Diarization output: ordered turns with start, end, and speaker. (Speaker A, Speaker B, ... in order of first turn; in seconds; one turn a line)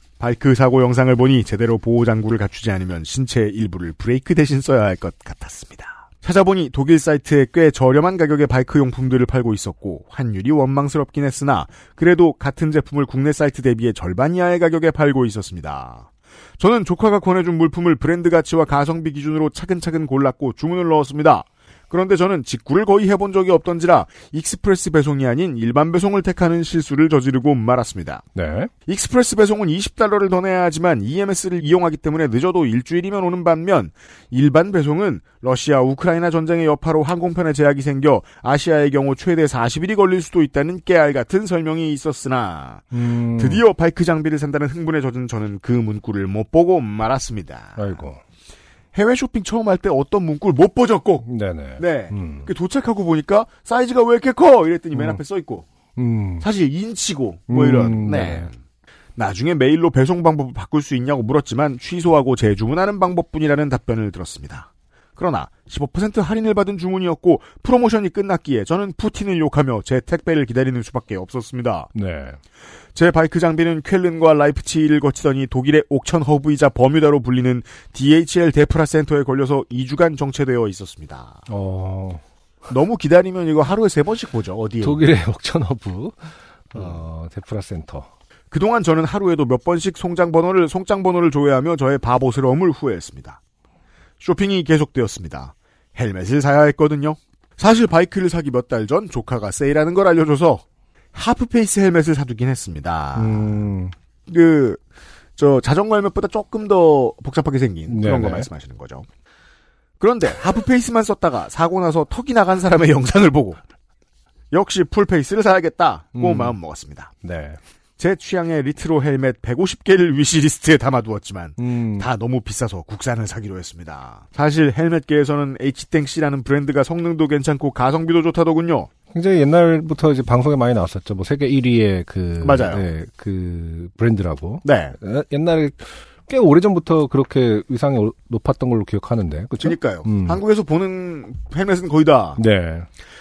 Speaker A: 0.2-28.2
Speaker B: 28.3-28.7
Speaker A: 28.9-48.0
Speaker B: 42.9-43.6
Speaker B: 47.8-48.2
Speaker A: 48.9-51.2
Speaker B: 51.2-52.5
Speaker A: 51.8-55.7
Speaker B: 54.9-55.2
Speaker B: 56.0-56.5
Speaker A: 56.4-58.5
Speaker B: 57.5-58.5
Speaker A: 59.1-71.9
Speaker B: 71.9-72.4
Speaker A: 72.9-81.4
Speaker B: 81.5-82.2
Speaker A: 82.7-85.0
Speaker B: 84.8-88.1
Speaker A: 88.5-93.4
Speaker A: 94.2-103.6
Speaker B: 103.2-103.9
Speaker A: 104.3-104.8
Speaker A: 105.4-109.0
Speaker B: 107.9-108.5
Speaker A: 110.0-113.6
Speaker A: 114.5-117.1
Speaker B: 116.1-116.6
Speaker B: 117.2-117.6
Speaker A: 118.0-128.9
Speaker B: 121.6-122.1
Speaker B: 129.1-140.4
Speaker A: 132.4-132.9
Speaker A: 134.6-134.9
Speaker A: 139.6-142.4
Speaker B: 142.4-142.9